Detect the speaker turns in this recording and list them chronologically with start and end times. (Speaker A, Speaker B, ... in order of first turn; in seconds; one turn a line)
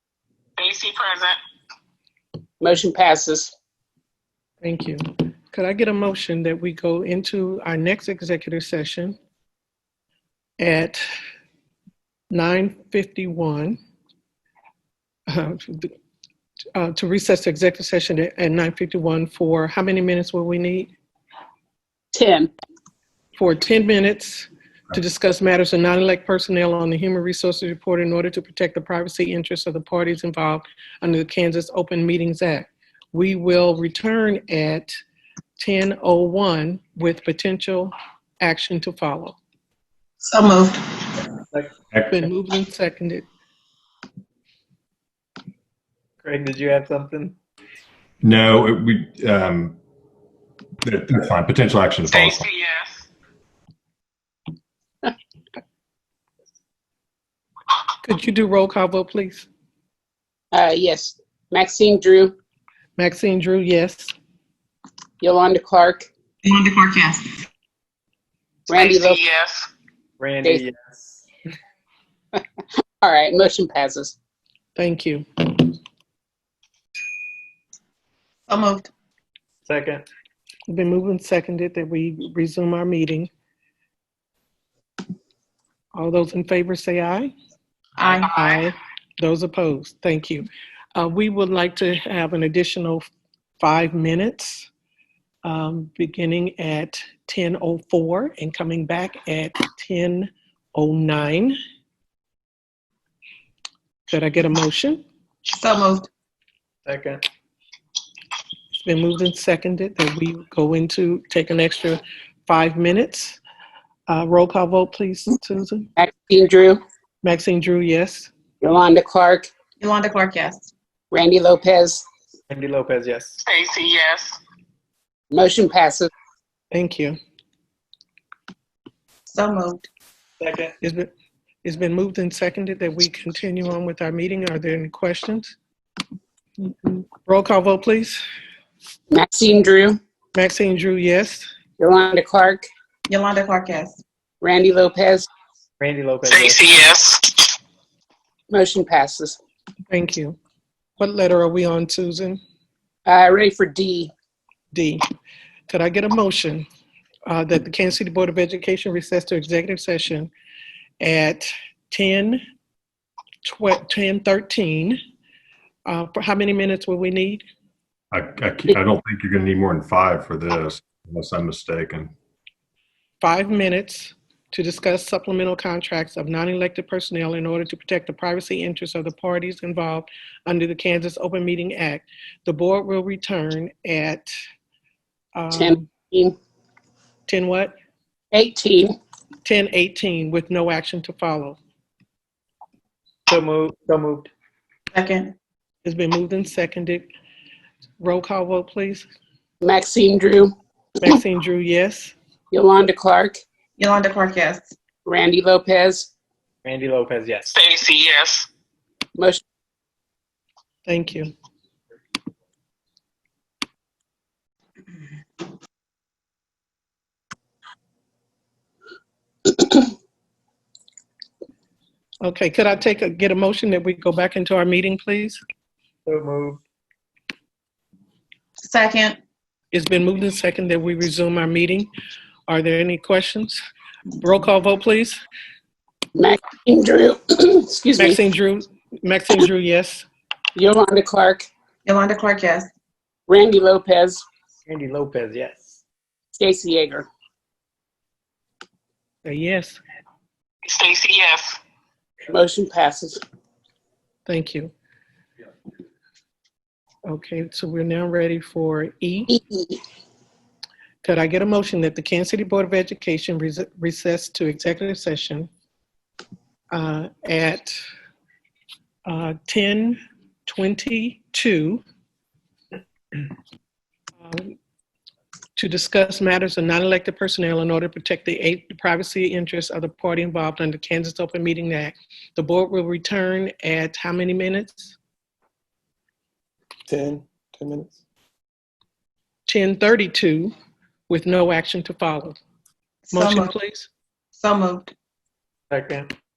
Speaker A: 0.6-1.4
Speaker B: 2.6-3.5
Speaker C: 4.6-9.2
Speaker C: 10.6-11.0
Speaker C: 12.3-13.8
Speaker C: 15.3-15.9
Speaker C: 16.8-20.9
Speaker B: 22.1-22.5
Speaker C: 23.4-34.9
Speaker C: 35.6-39.4
Speaker D: 40.2-40.8
Speaker E: 41.9-42.2
Speaker C: 42.1-43.3
Speaker F: 46.2-47.4
Speaker E: 48.2-49.8
Speaker E: 50.8-52.5
Speaker A: 52.1-53.0
Speaker C: 58.0-59.5
Speaker B: 60.5-62.4
Speaker C: 63.0-64.1
Speaker B: 65.2-66.1
Speaker D: 66.5-67.3
Speaker B: 68.7-69.2
Speaker A: 68.7-69.7
Speaker F: 70.2-71.2
Speaker B: 73.0-74.2
Speaker C: 74.8-75.3
Speaker D: 78.5-78.9
Speaker F: 79.7-80.1
Speaker C: 80.7-83.3
Speaker C: 86.0-87.3
Speaker D: 88.0-88.3
Speaker C: 88.2-93.1
Speaker C: 93.6-94.7
Speaker C: 95.4-101.5
Speaker C: 104.1-105.0
Speaker D: 105.5-106.1
Speaker F: 106.9-107.2
Speaker C: 108.7-113.4
Speaker C: 114.1-115.9
Speaker B: 116.0-116.8
Speaker C: 117.2-118.3
Speaker B: 118.6-119.5
Speaker D: 119.8-120.7
Speaker B: 121.1-122.0
Speaker F: 122.5-123.4
Speaker A: 123.4-124.4
Speaker B: 125.3-126.1
Speaker C: 126.7-127.2
Speaker D: 129.3-129.9
Speaker F: 130.4-130.7
Speaker C: 130.8-131.1
Speaker C: 131.6-135.6
Speaker D: 136.7-136.9
Speaker C: 137.2-138.2
Speaker B: 139.1-140.0
Speaker C: 140.3-141.5
Speaker B: 141.8-142.7
Speaker D: 143.1-144.0
Speaker B: 144.4-145.3
Speaker F: 145.8-146.9
Speaker A: 146.2-147.5
Speaker B: 148.5-149.4
Speaker C: 149.9-150.4
Speaker C: 151.0-152.4
Speaker B: 153.1-154.1
Speaker C: 154.7-155.0
Speaker C: 155.7-156.7
Speaker C: 157.3-160.3
Speaker C: 161.0-162.4
Speaker C: 163.4-165.0
Speaker C: 165.9-167.4
Speaker E: 168.1-172.1
Speaker C: 173.2-184.3
Speaker C: 185.3-185.9
Speaker B: 185.5-186.3
Speaker C: 187.3-187.7
Speaker B: 188.3-188.9
Speaker C: 189.4-191.6
Speaker F: 193.3-194.3
Speaker D: 194.9-195.3
Speaker C: 195.8-197.1
Speaker C: 198.0-199.1
Speaker B: 199.6-200.5
Speaker C: 201.0-202.1
Speaker B: 202.5-203.4
Speaker D: 203.8-204.7
Speaker B: 205.1-206.1
Speaker F: 206.7-207.5
Speaker A: 207.5-208.5
Speaker B: 209.2-209.4
Speaker C: 210.9-211.3
Speaker C: 222.2-225.4
Speaker F: 226.1-226.6
Speaker D: 228.6-229.2
Speaker C: 229.7-231.9
Speaker C: 232.5-233.6
Speaker C: 234.2-235.2
Speaker B: 236.2-238.2
Speaker C: 238.0-240.1
Speaker B: 240.6-241.5
Speaker D: 241.9-242.7
Speaker B: 243.3-244.2
Speaker F: 244.7-245.8
Speaker B: 246.4-247.1
Speaker C: 249.2-249.8
Speaker A: 250.7-251.6
Speaker B: 252.3-253.2
Speaker C: 254.3-254.7
Speaker C: 257.1-259.4
Speaker B: 259.3-259.8
Speaker C: 261.0-265.5
Speaker C: 266.7-267.8
Speaker C: 269.1-271.8
Speaker C: 274.2-274.6
Speaker C: 275.6-285.0
Speaker F: 286.9-288.0
Speaker C: 289.5-290.5
Speaker C: 291.1-292.4
Speaker D: 293.1-293.5
Speaker C: 293.1-293.9
Speaker D: 294.4-294.9
Speaker F: 295.7-296.1